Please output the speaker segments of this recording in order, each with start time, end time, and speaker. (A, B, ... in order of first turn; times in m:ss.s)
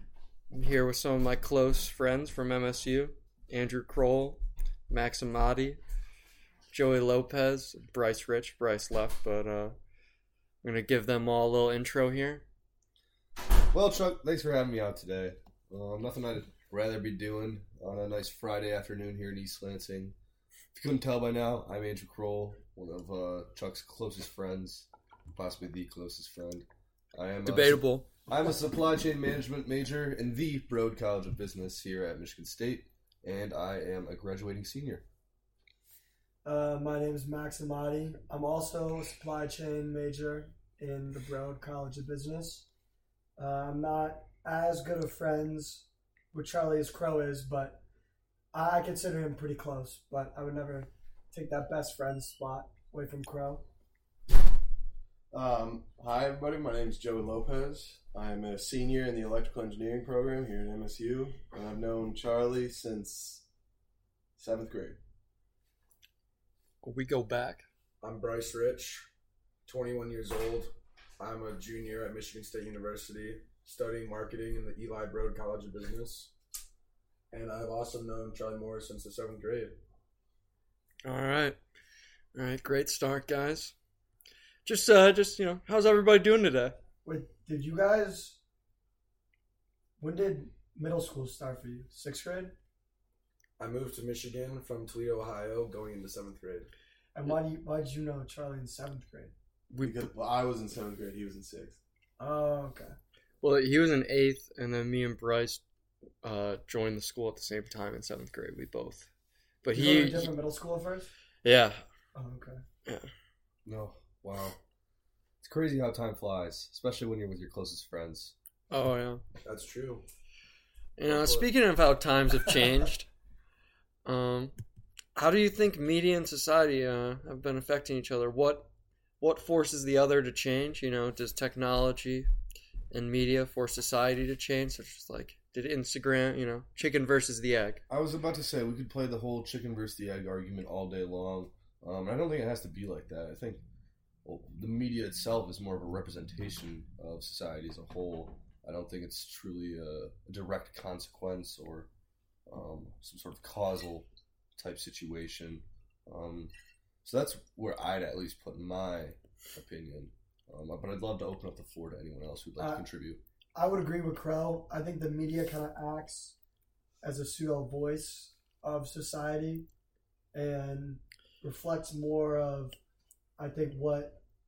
0:00.5-0:05.8 A
0:06.7-0:09.8 A
0:10.6-0:12.4 A
0:13.7-0:20.2 B
0:20.8-0:35.0 B
0:27.5-0:28.1 A
0:36.4-0:42.7 C
0:43.4-0:47.8 C
0:48.5-0:53.6 C
0:55.3-1:03.4 D
1:04.4-1:05.0 D
1:06.8-1:07.7 A
1:08.0-1:09.1 E
1:09.7-1:16.3 E
1:17.3-1:19.8 E
1:21.0-1:21.6 A
1:22.3-1:23.8 A
1:24.6-1:26.8 A
1:27.0-1:28.4 C
1:30.0-1:32.5 C
1:33.6-1:36.7 E
1:37.1-1:39.3 C
1:39.7-1:40.1 A
1:39.8-1:41.8 D
1:42.2-1:43.0 C
1:43.4-1:45.6 A
1:46.2-1:49.1 A
1:49.6-1:50.4 A
1:49.7-1:51.1 C
1:51.4-1:51.8 A
1:52.2-1:52.6 C
1:53.6-1:54.6 B
1:55.4-1:58.3 B
1:58.7-1:59.2 A
1:59.4-2:00.0 E
2:01.0-2:03.1 A
2:01.1-2:01.5 E
2:04.0-2:04.6 A
2:05.2-2:12.3 A
2:12.9-2:17.8 A
2:17.9-2:23.6 B
2:24.2-2:31.9 B
2:32.5-2:36.5 B
2:37.0-2:43.2 B
2:42.6-2:42.8 C
2:43.6-2:46.4 C
2:47.0-2:49.7 C
2:50.3-2:52.8 C
2:53.4-2:54.2 C